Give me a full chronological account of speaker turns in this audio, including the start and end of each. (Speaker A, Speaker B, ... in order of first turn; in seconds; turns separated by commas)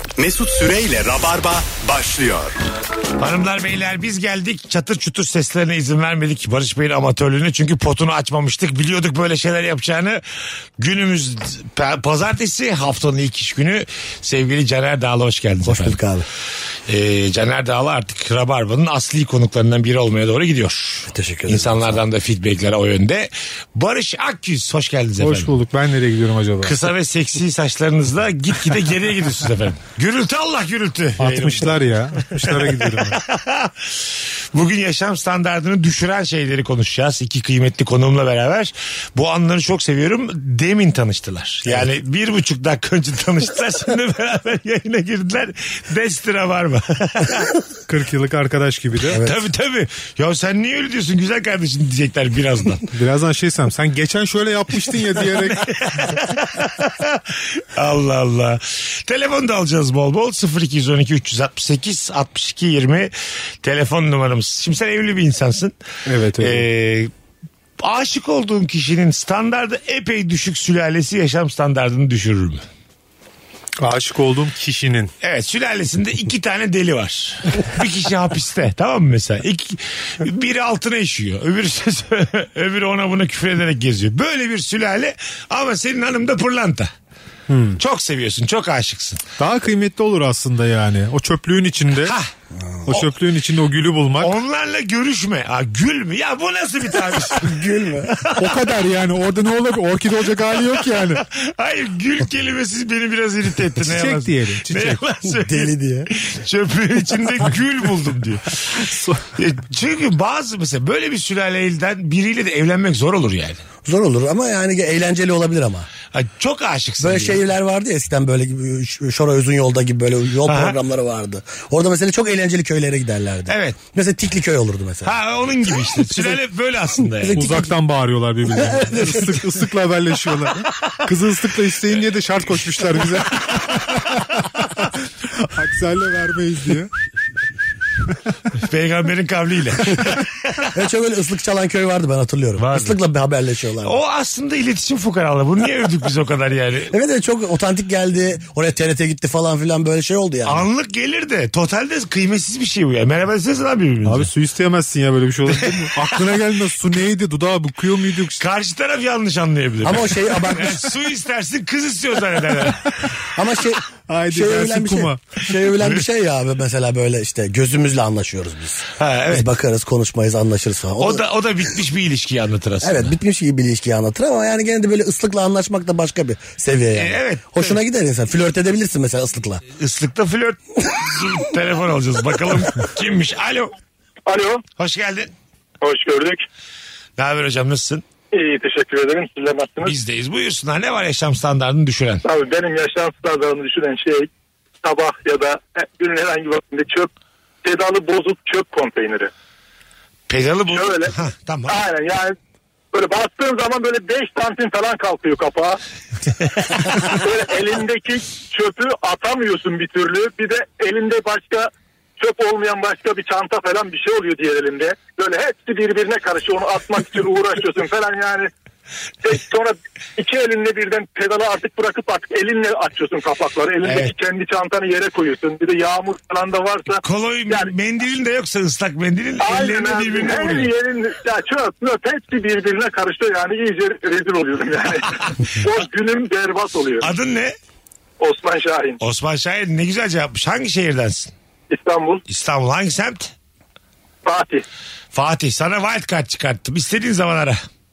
Speaker A: 0.2-2.5, Speaker B: 3.2-10.2, Speaker B: 10.8-16.0, Speaker C: 15.6-16.2, Speaker B: 16.9-25.5, Speaker C: 21.1-22.0, Speaker D: 25.2-26.9, Speaker B: 26.6-47.5, Speaker D: 31.2-33.2, Speaker D: 47.9-49.2, Speaker C: 49.1-49.4, Speaker B: 49.2-52.9, Speaker D: 52.9-55.7, Speaker B: 55.2-63.1, Speaker B: 63.6-65.7, Speaker D: 66.0-66.7, Speaker B: 66.4-67.1, Speaker B: 67.8-72.6, Speaker D: 73.8-75.1, Speaker B: 75.2-86.9, Speaker D: 87.5-87.8, Speaker B: 87.8-89.2, Speaker D: 89.4-92.2, Speaker B: 92.0-92.3, Speaker C: 92.6-92.9, Speaker D: 92.8-94.3, Speaker B: 94.2-98.6, Speaker C: 97.2-98.1, Speaker D: 98.4-101.2, Speaker B: 100.5-108.8, Speaker D: 103.8-105.0, Speaker C: 105.3-106.1, Speaker D: 108.8-109.2, Speaker B: 109.3-113.6, Speaker C: 113.8-115.9, Speaker B: 116.1-117.4, Speaker C: 117.0-126.4, Speaker B: 120.4-120.8, Speaker B: 123.5-123.8, Speaker B: 125.0-127.4, Speaker C: 127.0-127.7, Speaker D: 127.3-136.9, Speaker C: 128.5-129.5, Speaker B: 133.4-134.2, Speaker B: 138.6-140.7, Speaker C: 140.7-144.0, Speaker B: 142.6-142.9, Speaker B: 143.8-146.9, Speaker C: 146.9-150.7, Speaker B: 150.4-154.3, Speaker D: 154.0-158.4, Speaker B: 155.5-156.3, Speaker B: 158.4-163.1, Speaker C: 159.8-160.9, Speaker C: 163.3-171.2, Speaker D: 164.1-165.2, Speaker B: 165.7-166.0, Speaker B: 169.0-169.5, Speaker B: 171.0-173.1, Speaker C: 172.8-179.6, Speaker B: 176.9-177.8, Speaker B: 179.7-183.7, Speaker E: 184.3-184.6, Speaker B: 184.8-185.3, Speaker E: 185.8-186.4, Speaker B: 187.2-188.0, Speaker E: 188.3-189.9, Speaker B: 189.8-192.2, Speaker E: 192.2-194.3, Speaker E: 194.8-197.1, Speaker E: 197.6-199.3, Speaker B: 200.3-201.8, Speaker E: 200.7-201.1, Speaker E: 201.7-202.3, Speaker E: 202.9-205.8, Speaker E: 206.6-218.5, Speaker E: 219.2-227.7, Speaker B: 223.8-224.1, Speaker B: 227.0-230.7, Speaker E: 229.4-237.1, Speaker B: 237.0-237.6, Speaker E: 238.2-239.0, Speaker B: 239.0-241.3, Speaker E: 241.7-242.2, Speaker B: 242.3-243.3, Speaker E: 244.2-244.6, Speaker B: 245.1-247.6